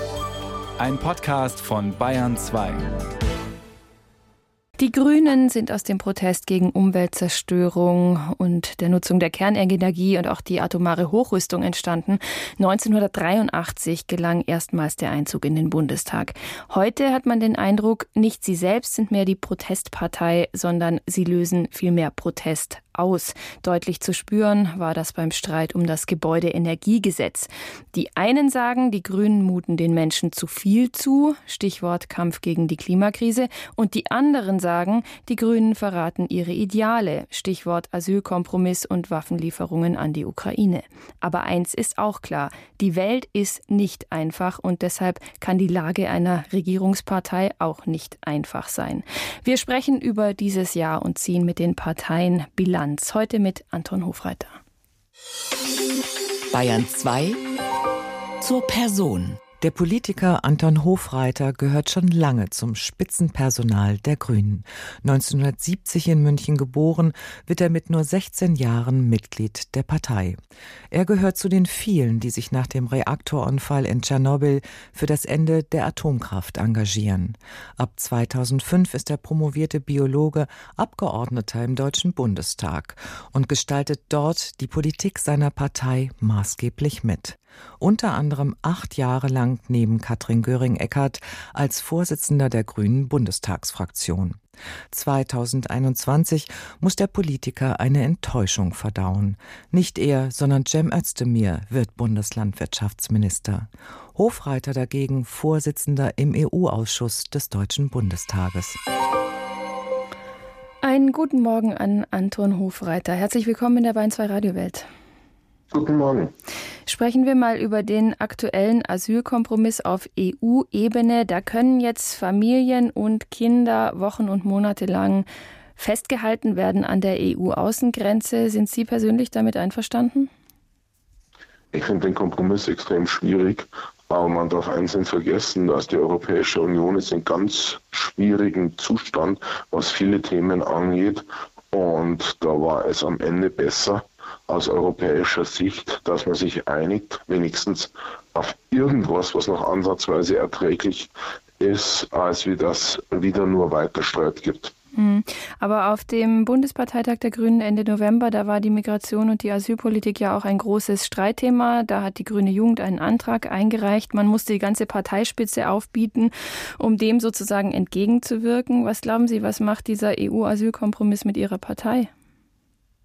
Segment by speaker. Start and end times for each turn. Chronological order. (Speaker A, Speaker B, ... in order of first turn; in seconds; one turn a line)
Speaker A: 0.8-2.9
Speaker B: 4.8-54.6
Speaker C: 56.5-57.4
Speaker C: 58.4-59.4
Speaker D: 59.6-70.4
Speaker D: 70.9-94.4
Speaker D: 94.9-108.8
Speaker B: 110.8-114.8
Speaker E: 115.7-116.3
Speaker B: 116.9-130.3
Speaker E: 131.7-154.7
Speaker B: 154.9-172.1